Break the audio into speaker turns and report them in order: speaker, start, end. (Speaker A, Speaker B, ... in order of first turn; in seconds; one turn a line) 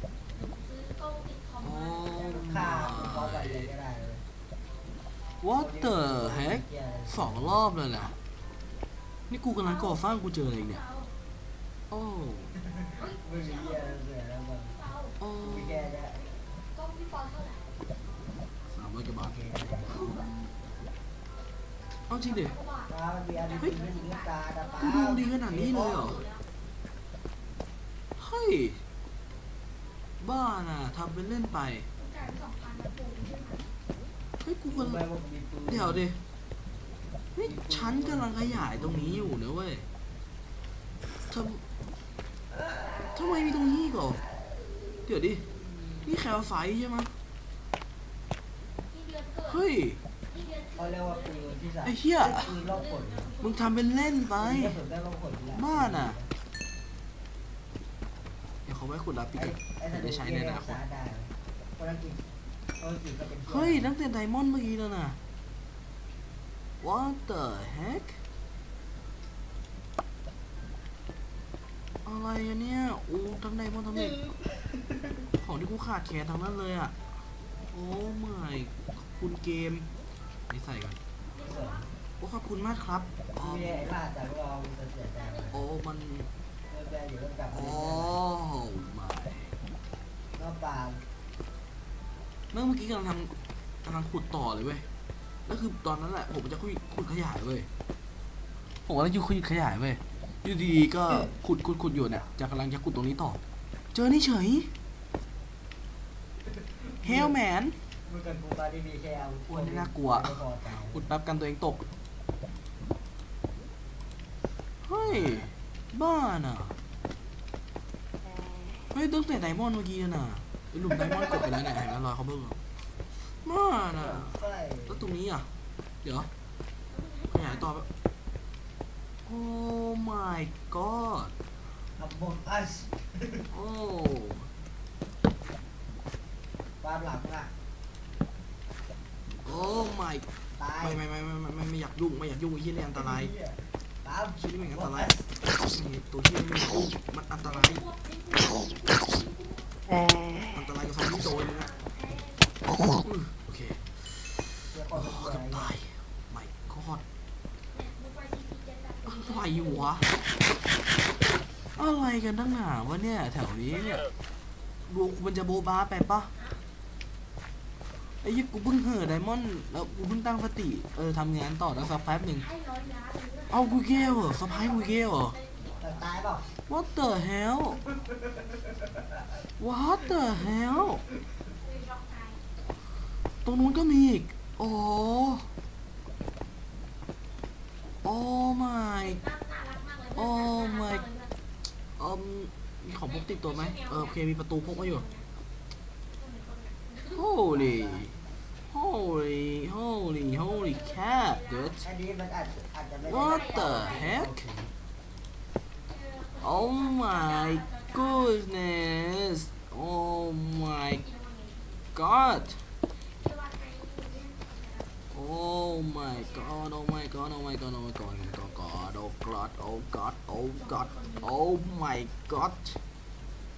Speaker A: 0.3-2.6
Speaker B: 1.6-3.7
Speaker C: 2.2-4.2
Speaker B: 5.4-8.2
Speaker C: 5.6-7.6
Speaker B: 9.3-10.8
Speaker A: 9.6-11.1
Speaker B: 11.9-12.6
Speaker C: 12.7-14.8
Speaker A: 13.0-14.0
Speaker A: 14.7-15.2
Speaker B: 15.2-15.9
Speaker C: 15.4-16.3
Speaker A: 16.7-17.7
Speaker B: 18.7-19.4
Speaker C: 19.2-20.0
Speaker B: 19.9-20.5
Speaker B: 22.1-22.6
Speaker A: 22.1-26.4
Speaker C: 22.9-26.2
Speaker B: 24.8-26.2
Speaker B: 28.2-28.8
Speaker B: 30.2-31.9
Speaker A: 32.0-33.7
Speaker B: 34.4-35.0
Speaker C: 34.7-36.1
Speaker B: 35.7-36.2
Speaker B: 37.4-39.9
Speaker C: 37.4-39.4
Speaker B: 41.3-41.6
Speaker C: 42.5-46.1
Speaker B: 43.1-44.2
Speaker B: 45.1-45.5
Speaker B: 46.0-47.1
Speaker A: 48.9-49.6
Speaker B: 49.5-50.0
Speaker A: 50.3-53.8
Speaker C: 50.6-53.4
Speaker B: 51.8-52.6
Speaker B: 53.4-54.8
Speaker C: 54.4-56.3
Speaker B: 55.5-56.2
Speaker B: 58.7-60.8
Speaker C: 59.4-62.2
Speaker C: 62.8-63.9
Speaker B: 63.5-65.2
Speaker B: 66.8-68.2
Speaker B: 72.0-74.2
Speaker C: 73.9-75.3
Speaker B: 75.3-77.2
Speaker B: 77.7-79.9
Speaker B: 80.5-81.0
Speaker A: 81.3-81.8
Speaker C: 81.4-81.9
Speaker B: 82.2-83.9
Speaker C: 83.4-85.7
Speaker A: 85.2-85.5
Speaker B: 85.5-86.3
Speaker C: 86.7-88.2
Speaker B: 87.5-89.5
Speaker C: 90.3-91.0
Speaker B: 92.5-93.3
Speaker B: 93.8-94.9
Speaker B: 95.5-97.7
Speaker B: 98.9-103.4
Speaker C: 101.9-102.3
Speaker B: 103.9-104.7
Speaker C: 106.7-107.3
Speaker B: 107.0-107.8
Speaker C: 108.0-111.1
Speaker B: 109.5-111.8
Speaker B: 114.8-116.8
Speaker C: 115.0-115.5
Speaker B: 118.9-122.6
Speaker B: 123.2-125.5
Speaker C: 124.0-125.1
Speaker B: 126.0-126.3
Speaker A: 126.9-127.7
Speaker B: 127.3-127.9
Speaker B: 129.3-131.3
Speaker C: 132.0-133.5
Speaker B: 133.5-134.5
Speaker C: 136.8-137.5
Speaker B: 139.4-140.3
Speaker C: 140.6-141.0
Speaker B: 140.8-143.3
Speaker C: 143.0-145.3
Speaker B: 144.4-147.8
Speaker A: 147.4-149.7
Speaker B: 150.5-151.7
Speaker A: 151.2-152.5
Speaker B: 152.9-157.0
Speaker C: 154.7-155.7
Speaker A: 157.7-160.1
Speaker B: 159.1-160.1
Speaker B: 161.7-164.1
Speaker B: 164.9-166.3
Speaker A: 166.3-166.6
Speaker B: 168.2-172.5
Speaker A: 172.4-176.1
Speaker B: 173.5-175.4
Speaker C: 175.8-176.5
Speaker B: 176.6-177.8
Speaker B: 179.6-181.0
Speaker A: 181.5-182.4
Speaker B: 183.4-185.5
Speaker B: 188.0-189.2
Speaker A: 189.0-191.3
Speaker B: 190.2-191.1
Speaker B: 192.0-195.1
Speaker A: 193.1-195.3
Speaker A: 196.2-197.2
Speaker B: 197.1-198.2
Speaker C: 197.5-198.1
Speaker B: 198.7-201.8
Speaker A: 200.3-201.8
Speaker C: 201.8-204.4
Speaker B: 203.1-204.7
Speaker A: 203.1-204.2
Speaker A: 205.9-208.3
Speaker B: 206.4-211.0
Speaker A: 210.9-211.8
Speaker B: 211.9-212.7
Speaker A: 212.9-215.0
Speaker B: 215.1-222.8
Speaker A: 215.8-216.6
Speaker A: 220.6-221.3